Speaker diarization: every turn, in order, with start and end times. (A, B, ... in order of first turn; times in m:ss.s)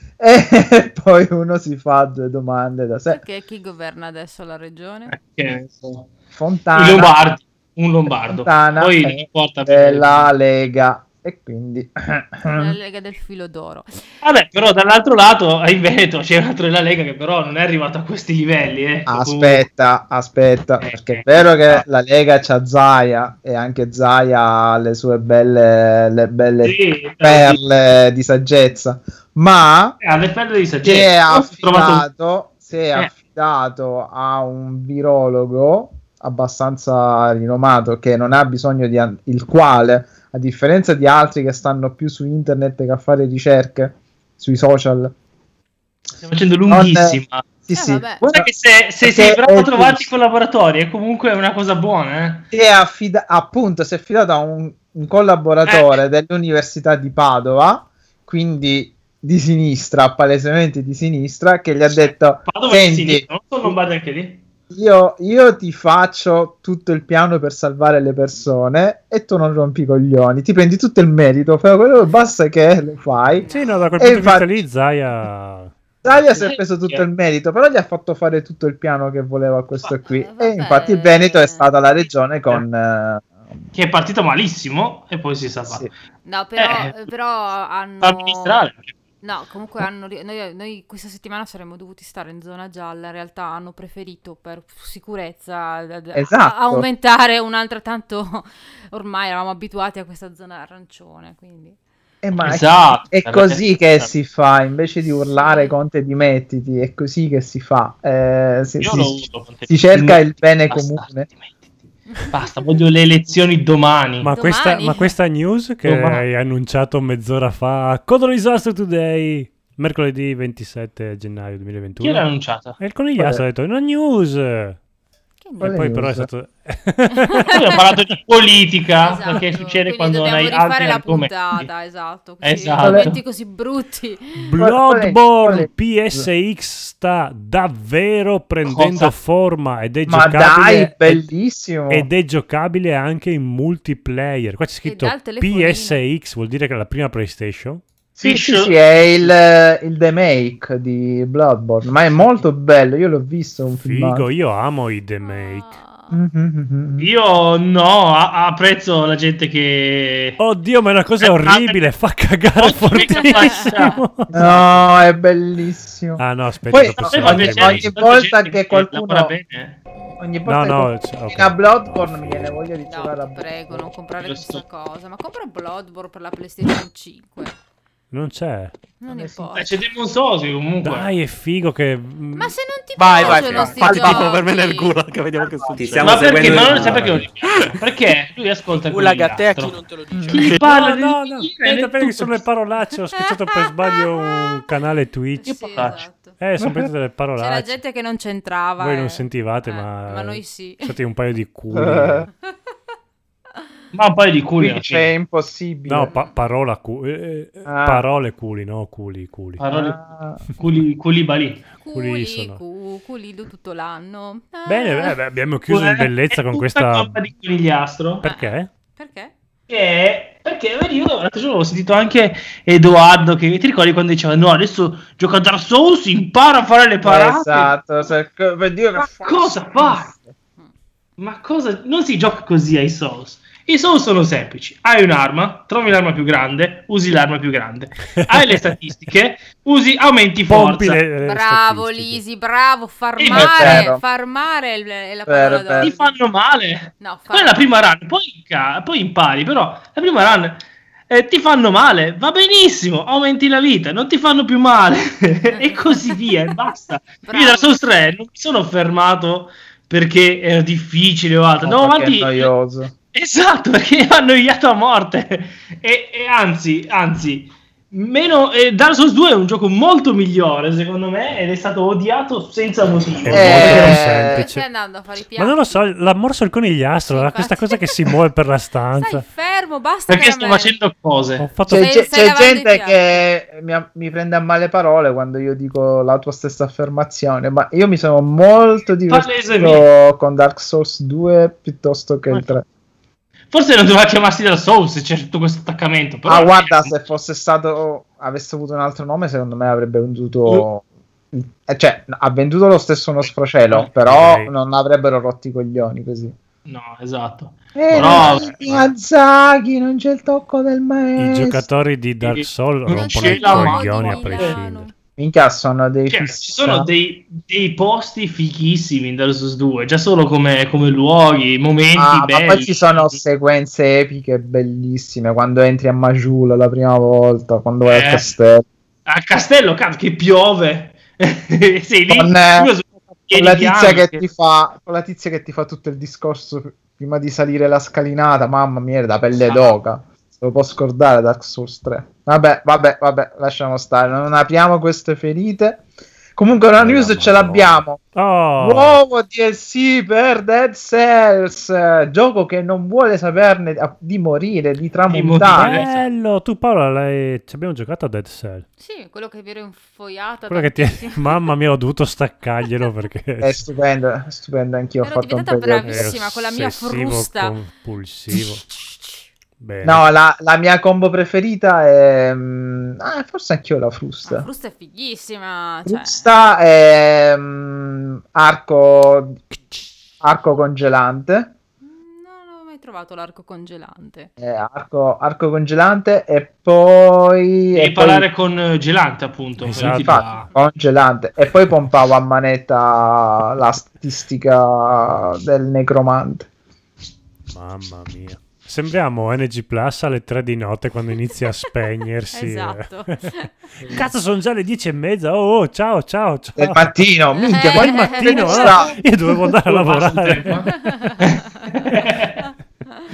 0:00.2-0:03.2 A
0:03.1-0:05.1 B
0:05.1-0:06.1 C
0:06.3-0:07.3 A
0:06.7-0:10.3 C
0:08.3-0:12.8 A
0:12.5-0:14.1 B
0:14.2-0:19.6 C
0:19.1-0:30.0 A
0:20.8-0:21.8 C
0:26.6-0:27.6 C
0:30.0-0:32.1 C
0:30.8-0:45.1 A
0:46.1-0:47.4 C
0:46.7-0:48.4 A
0:47.7-0:48.2 B
0:48.2-0:52.4 C
0:49.0-0:50.1 A
0:52.5-1:03.7 A
0:55.6-0:56.0 C
1:01.9-1:04.4 C
1:04.7-1:14.6 A
1:13.3-1:13.8 B
1:13.5-1:15.7 D
1:16.0-1:23.4 A
1:16.3-1:17.0 C
1:20.0-1:22.1 B
1:23.7-1:25.9 C
1:26.2-1:28.6 B
1:26.6-1:26.9 C
1:28.0-1:29.0 C
1:29.2-1:41.8 B
1:36.1-1:36.9 A
1:42.2-1:51.3 A
1:42.4-1:44.1 C
1:45.2-1:45.8 B
1:48.8-1:51.6 C
1:52.1-1:52.5 B
1:52.3-1:54.3 C
1:54.2-2:04.8 D
1:54.3-1:55.1 B
1:55.8-1:56.2 C
2:02.0-2:02.8 C
2:03.2-2:03.4 A
2:05.4-2:05.8 B
2:05.6-2:06.3 A
2:05.6-2:07.4 D
2:07.4-2:07.8 B
2:07.5-2:11.7 C
2:09.0-2:14.5 B
2:12.4-2:13.2 C
2:12.8-2:13.1 A
2:14.4-2:21.2 D
2:14.6-2:16.3 A
2:18.6-2:19.1 C
2:20.0-2:22.1 A
2:21.9-2:27.8 D
2:24.8-2:26.0 B
2:28.2-2:29.3 C
2:28.2-2:34.3 A
2:32.2-2:32.4 D
2:33.7-2:35.8 D
2:35.2-2:36.2 B
2:36.1-2:37.1 A
2:37.0-2:40.4 C
2:40.4-2:44.8 D
2:41.2-2:41.9 C
2:42.6-2:44.5 C
2:43.2-2:44.0 B
2:44.3-2:49.3 A
2:46.2-2:47.9 D
2:47.0-2:49.8 C
2:50.2-2:53.9 A
2:50.4-2:52.6 D
2:52.8-2:57.6 B
2:54.2-2:54.6 C
2:58.1-2:58.8 D
2:59.0-2:59.7 B
2:59.5-3:01.1 C
3:00.8-3:02.6 D
3:02.3-3:05.0 B
3:03.0-3:07.8 E
3:06.0-3:12.4 C
3:06.8-3:07.3 D
3:08.8-3:10.7 E
3:10.1-3:10.4 A
3:10.5-3:15.5 D
3:13.3-3:14.6 B
3:15.4-3:16.4 B
3:15.4-3:16.1 C
3:16.4-3:17.8 D
3:16.6-3:16.9 A
3:17.4-3:20.9 B
3:18.8-3:22.2 D
3:21.7-3:22.2 A
3:23.9-3:25.1 C
3:24.6-3:26.1 A
3:25.9-3:29.6 D
3:27.6-3:28.0 A
3:29.6-3:30.0 C
3:29.7-3:30.4 A
3:30.6-3:31.6 C
3:31.8-3:35.2 B
3:31.9-3:32.6 D
3:34.6-3:37.2 D
3:35.7-3:38.2 C
3:38.2-3:38.7 D
3:38.2-3:39.3 B
3:39.7-3:47.8 C
3:47.0-3:50.3 A
3:49.0-3:50.1 C
3:51.2-4:01.0 C
4:00.4-4:02.2 D
4:01.2-4:06.2 B
4:03.2-4:03.9 C
4:03.3-4:04.0 A
4:05.3-4:05.9 A
4:05.8-4:22.5 C
4:07.0-4:07.6 B
4:15.5-4:16.1 B
4:17.2-4:17.7 B
4:21.6-4:22.9 A
4:23.1-4:34.0 C
4:33.2-4:34.6 D
4:33.3-4:34.5 A
4:33.5-4:35.8 B
4:35.4-4:39.2 D
4:37.1-4:38.1 B
4:39.0-4:40.7 B
4:40.1-4:41.4 C
4:41.4-4:41.9 D
4:41.6-4:52.6 A
4:41.7-4:43.0 B
4:49.1-4:49.8 C
4:53.5-4:57.0 C
4:56.2-5:06.3 A
5:03.2-5:03.9 C
5:04.0-5:04.5 D
5:06.6-5:08.5 C
5:07.7-5:11.6 A
5:07.9-5:08.9 D
5:11.2-5:14.9 D
5:12.2-5:14.6 C
5:12.9-5:14.9 B
5:15.2-5:16.9 A
5:16.1-5:23.2 C
5:22.0-5:28.6 A
5:27.8-5:28.3 C
5:29.0-5:34.2 C
5:32.1-5:32.7 A
5:33.3-5:48.0 A
5:39.4-5:39.8 C
5:46.8-5:49.0 D
5:48.6-5:55.8 A
5:55.1-5:56.0 C
5:55.4-5:58.6 D
5:58.8-6:01.4 B
6:00.5-6:03.6 D
6:03.4-6:06.1 A
6:05.0-6:07.6 B
6:05.8-6:08.6 D
6:08.4-6:09.2 B
6:09.6-6:10.1 D
6:09.8-6:14.5 A
6:14.2-6:16.3 B
6:15.8-6:19.4 A
6:20.2-6:21.5 A
6:21.8-6:24.3 B
6:24.4-6:28.3 A
6:27.7-6:30.4 C
6:29.6-6:30.3 D
6:29.8-6:36.5 A
6:30.3-6:30.6 B
6:37.5-6:43.2 D
6:42.3-6:43.5 B
6:43.8-6:44.0 C
6:43.8-6:47.0 D
6:46.6-6:49.0 A
6:47.4-6:48.9 B
6:47.6-6:50.8 D
6:49.6-6:52.4 C
6:50.6-6:51.4 B
6:52.4-6:52.9 B